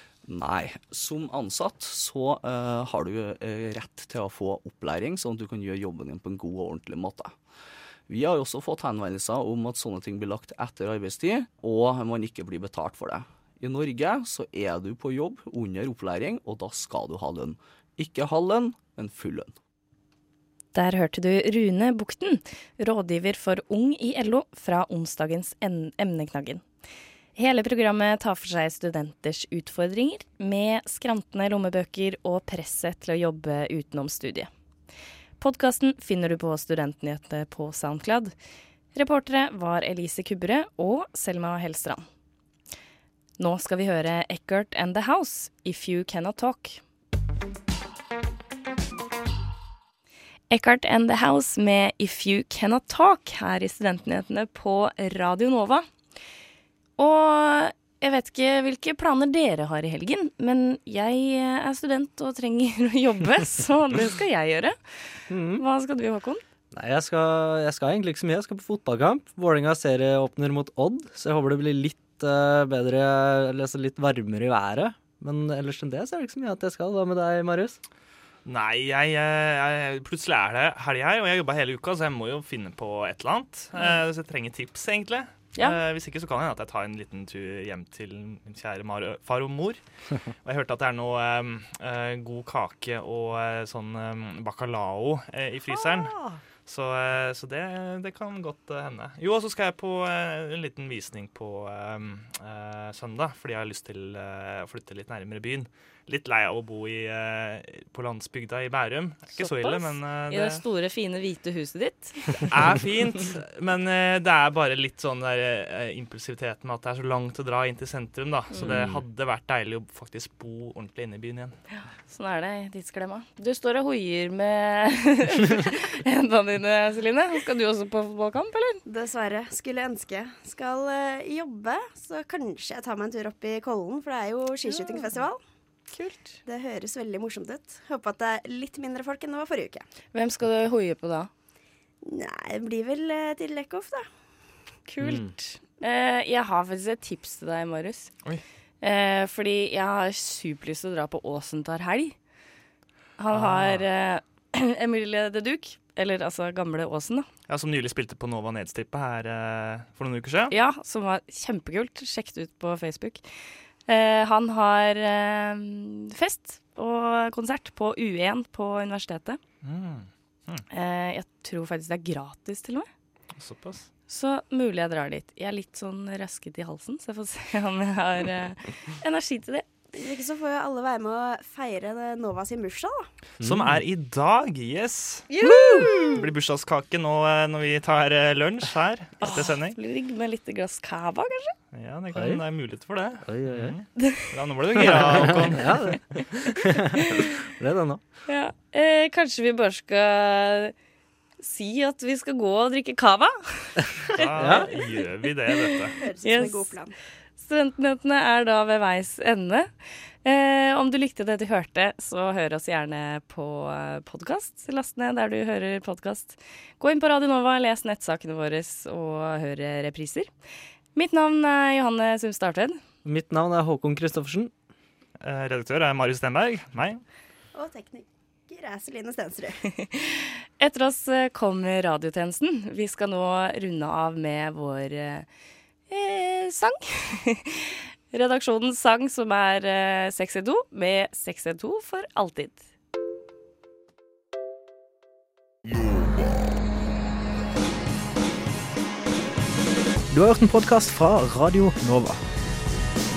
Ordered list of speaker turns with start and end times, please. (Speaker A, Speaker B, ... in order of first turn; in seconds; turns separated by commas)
Speaker A: 0.3-7.4, Speaker A: 8.1-19.5, Speaker B: 20.7-26.6, Speaker B: 27.4-34.5, Speaker B: 35.4-38.3, Speaker B: 38.9-42.0, Speaker B: 43.4-46.8, Speaker B: 50.5-55.9, Speaker B: 57.0-66.4, Speaker C: 65.3-65.6, Speaker C: 66.7-77.8, Speaker D: 78.4-110.6, Speaker E: 95.7-96.4, Speaker B: 109.3-112.6, Speaker D: 112.5-121.6, Speaker C: 118.6-119.0, Speaker B: 121.7-128.8, Speaker E: 128.8-135.4, Speaker B: 134.7-135.0, Speaker B: 135.9-136.4, Speaker E: 136.4-139.8, Speaker B: 140.1-141.3, Speaker E: 142.0-144.1, Speaker B: 144.9-148.1, Speaker C: 145.0-145.3, Speaker B: 148.8-152.2, Speaker B: 153.2-157.3, Speaker D: 153.3-153.8, Speaker D: 157.5-160.5, Speaker B: 160.5-163.2, Speaker B: 163.9-169.4, Speaker D: 169.6-170.6, Speaker B: 170.7-172.9, Speaker D: 173.4-173.9, Speaker B: 174.1-179.7, Speaker E: 179.9-183.1, Speaker C: 183.4-183.9, Speaker D: 183.4-185.3, Speaker B: 185.4-186.2, Speaker C: 185.5-185.9, Speaker D: 186.1-189.8, Speaker B: 189.2-191.5, Speaker D: 191.7-196.0, Speaker C: 192.1-192.4, Speaker C: 193.2-194.2, Speaker C: 194.8-198.0, Speaker B: 198.3-200.7, Speaker B: 201.4-205.6, Speaker D: 204.2-205.9, Speaker C: 204.4-204.7, Speaker E: 206.0-206.9, Speaker B: 206.2-206.8, Speaker B: 207.4-209.7, Speaker B: 210.2-220.3, Speaker B: 221.0-222.8, Speaker C: 223.1-224.5, Speaker D: 225.2-227.0, Speaker E: 227.5-229.6, Speaker B: 229.8-235.2, Speaker B: 235.9-242.7, Speaker F: 250.1-252.2